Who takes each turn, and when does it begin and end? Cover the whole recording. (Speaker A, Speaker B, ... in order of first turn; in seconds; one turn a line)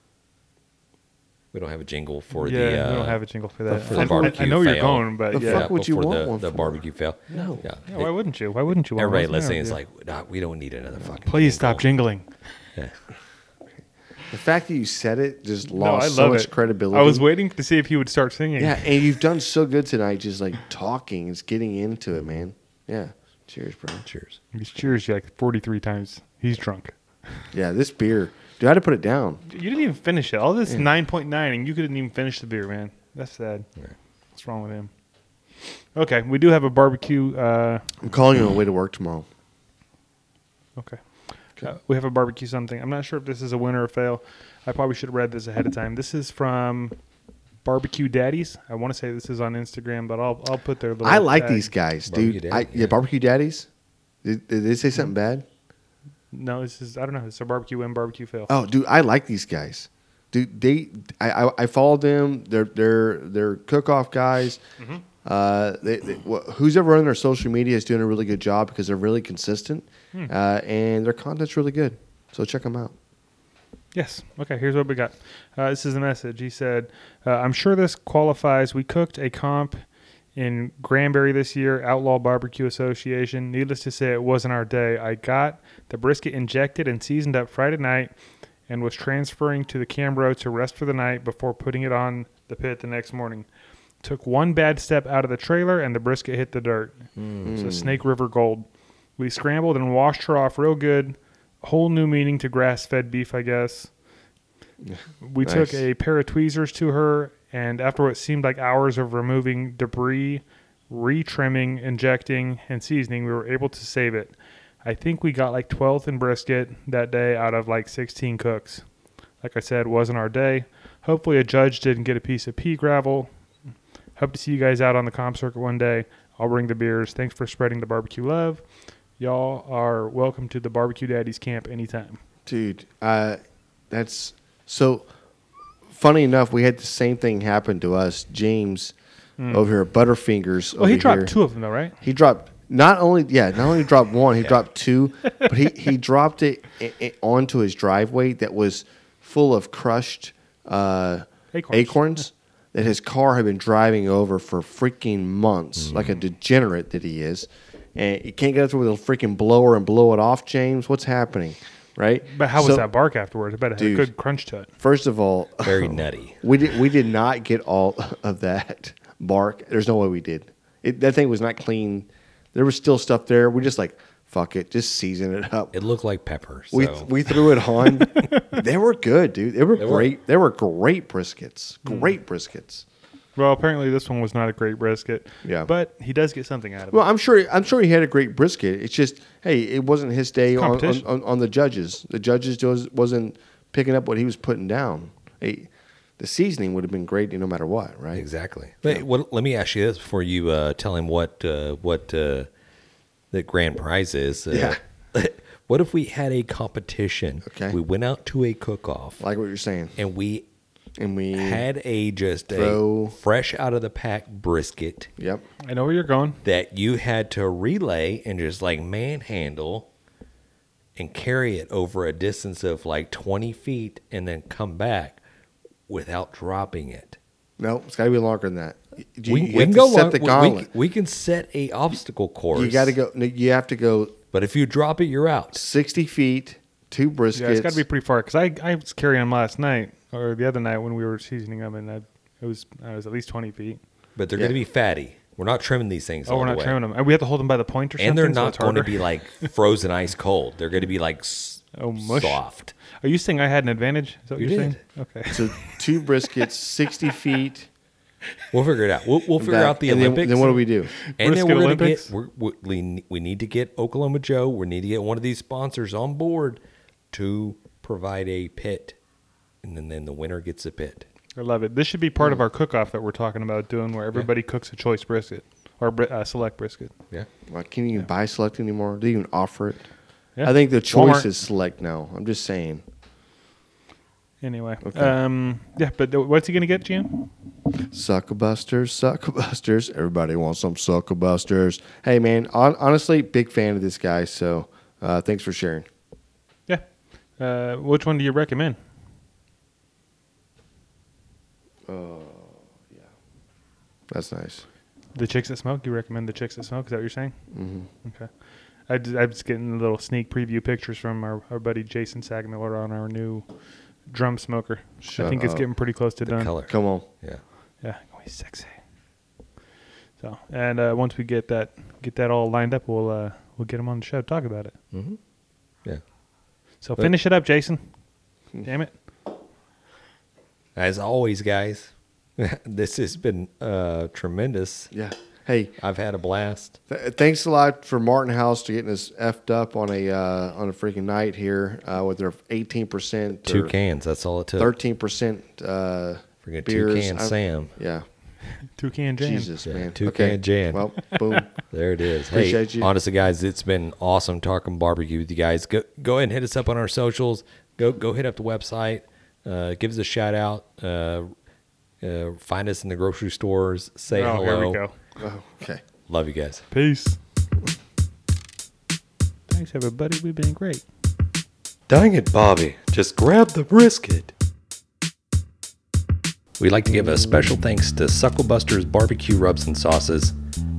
Speaker A: 1.5-8.2
Speaker B: 2.4-5.7
Speaker C: 3.7-4.4
Speaker C: 5.3-7.6
Speaker B: 7.3-9.8
Speaker A: 8.9-11.9
Speaker B: 11.2-12.5
Speaker C: 14.3-17.3
Speaker B: 15.7-19.1
Speaker C: 18.6-24.1
Speaker A: 24.1-24.4
Speaker B: 24.5-27.4
Speaker C: 27.5-29.4
Speaker B: 29.5-33.7
Speaker B: 34.3-34.9
Speaker B: 35.6-37.9
Speaker C: 38.0-39.2
Speaker B: 40.8-47.0
Speaker B: 47.6-51.7
Speaker C: 51.0-53.7
Speaker A: 52.1-53.0
Speaker C: 54.2-55.5
Speaker B: 56.3-58.5
Speaker C: 58.5-64.6
Speaker B: 64.8-65.0
Speaker C: 65.2-72.9
Speaker B: 73.9-79.8
Speaker B: 80.3-88.1
Speaker B: 88.7-93.5
Speaker B: 94.0-103.9
Speaker A: 97.2-97.5
Speaker C: 97.4-98.0
Speaker C: 104.8-105.8
Speaker B: 105.2-118.8
Speaker B: 119.4-123.3
Speaker B: 124.2-128.7
Speaker B: 129.2-132.2
Speaker C: 132.4-135.1
Speaker C: 135.9-138.9
Speaker B: 139.4-139.7
Speaker C: 139.5-141.3
Speaker B: 140.8-141.9
Speaker C: 142.0-162.9
Speaker B: 151.5-152.3
Speaker B: 162.3-164.7
Speaker C: 163.8-164.1
Speaker C: 164.8-175.7
Speaker A: 165.6-166.4
Speaker A: 175.7-177.4
Speaker C: 176.7-182.8
Speaker A: 179.8-180.1
Speaker B: 181.8-182.1
Speaker B: 183.3-187.0
Speaker C: 185.4-185.7
Speaker C: 186.9-198.2
Speaker B: 190.6-191.0
Speaker A: 198.1-202.5
Speaker A: 203.3-209.2
Speaker C: 204.5-204.8
Speaker C: 207.4-207.8
Speaker C: 209.2-209.9
Speaker A: 209.9-210.4
Speaker C: 211.0-211.6
Speaker A: 211.3-215.1
Speaker C: 212.5-213.2
Speaker C: 215.2-215.4
Speaker B: 215.6-216.4
Speaker A: 216.4-219.9
Speaker A: 220.9-225.2
Speaker A: 225.9-227.2
Speaker C: 227.6-230.7
Speaker A: 229.3-232.9
Speaker C: 232.5-234.2
Speaker A: 234.3-235.6
Speaker C: 235.5-237.8
Speaker B: 237.3-243.8
Speaker A: 244.2-246.8
Speaker B: 246.2-249.1
Speaker A: 248.0-252.7
Speaker B: 251.8-255.8
Speaker A: 254.4-254.8
Speaker C: 255.3-257.7
Speaker A: 258.5-260.6
Speaker C: 259.4-260.9
Speaker B: 261.0-262.1
Speaker A: 261.2-266.6
Speaker A: 267.1-269.0
Speaker A: 269.6-271.1
Speaker B: 271.4-276.9
Speaker C: 277.5-279.8
Speaker B: 280.4-281.3
Speaker C: 280.4-282.8
Speaker B: 284.4-287.3
Speaker C: 284.8-285.1
Speaker C: 287.9-295.9
Speaker B: 297.4-298.8
Speaker C: 301.9-303.1
Speaker C: 304.1-304.6
Speaker B: 305.1-307.3
Speaker C: 307.5-307.9
Speaker B: 308.0-308.3
Speaker B: 308.9-313.5
Speaker B: 314.1-316.5
Speaker C: 315.0-315.7
Speaker A: 316.2-317.4
Speaker C: 316.7-317.1
Speaker B: 317.8-318.8
Speaker B: 320.2-324.7
Speaker A: 324.9-325.2
Speaker B: 326.8-327.8
Speaker B: 328.6-328.9
Speaker A: 330.8-334.9
Speaker C: 334.9-335.7
Speaker A: 335.8-336.8
Speaker C: 336.9-343.7
Speaker A: 343.4-344.7
Speaker C: 344.6-348.1
Speaker A: 346.4-347.8
Speaker B: 348.6-349.5
Speaker C: 349.2-351.5
Speaker A: 349.6-351.1
Speaker B: 351.1-351.4
Speaker A: 351.7-361.3
Speaker C: 352.3-352.9
Speaker A: 362.0-364.8
Speaker B: 364.1-364.9
Speaker C: 365.2-365.8
Speaker A: 366.1-366.6
Speaker B: 366.7-367.2
Speaker B: 369.5-370.8
Speaker A: 371.9-374.3
Speaker A: 376.6-380.3